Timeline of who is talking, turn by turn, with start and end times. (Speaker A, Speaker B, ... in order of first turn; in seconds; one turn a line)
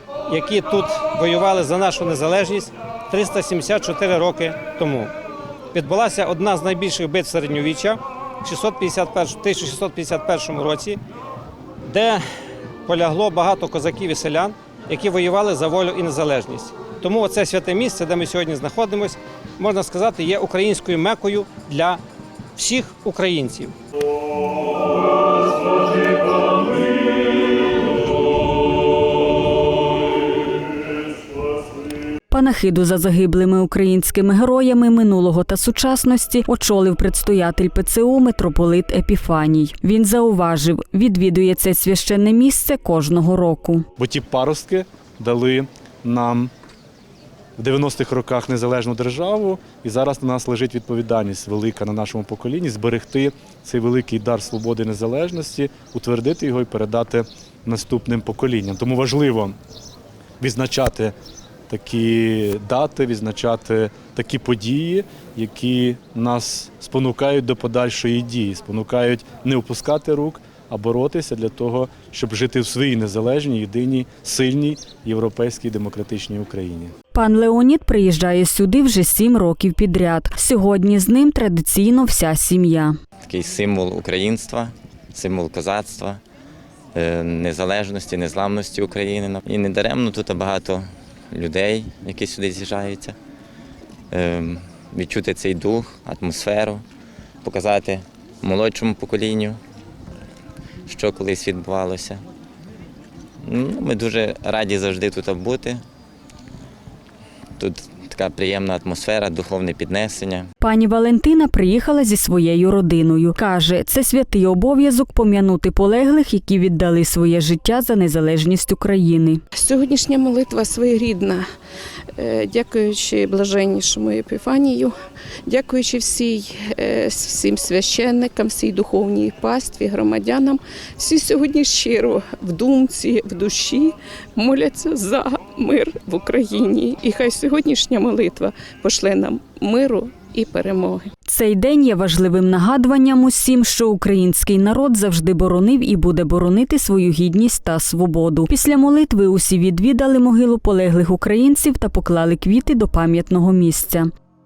Speaker A: 0.3-5.1
Speaker A: 5.7-11.0
Speaker A: 11.9-12.2
Speaker A: 12.9-22.0
Speaker A: 22.6-23.8
Speaker B: 32.3-43.9
Speaker C: 44.0-46.5
Speaker C: 47.6-59.6
Speaker C: 60.4-61.1
Speaker C: 61.7-76.9
Speaker B: 77.1-83.0
Speaker D: 83.2-86.2
Speaker D: 86.9-93.2
Speaker D: 94.1-96.8
Speaker D: 97.4-99.6
Speaker D: 100.9-102.2
Speaker D: 103.4-105.8
Speaker D: 107.6-110.5
Speaker B: 110.6-119.4
Speaker E: 119.5-121.4
Speaker E: 122.2-124.9
Speaker E: 125.5-141.1
Speaker B: 141.3-154.1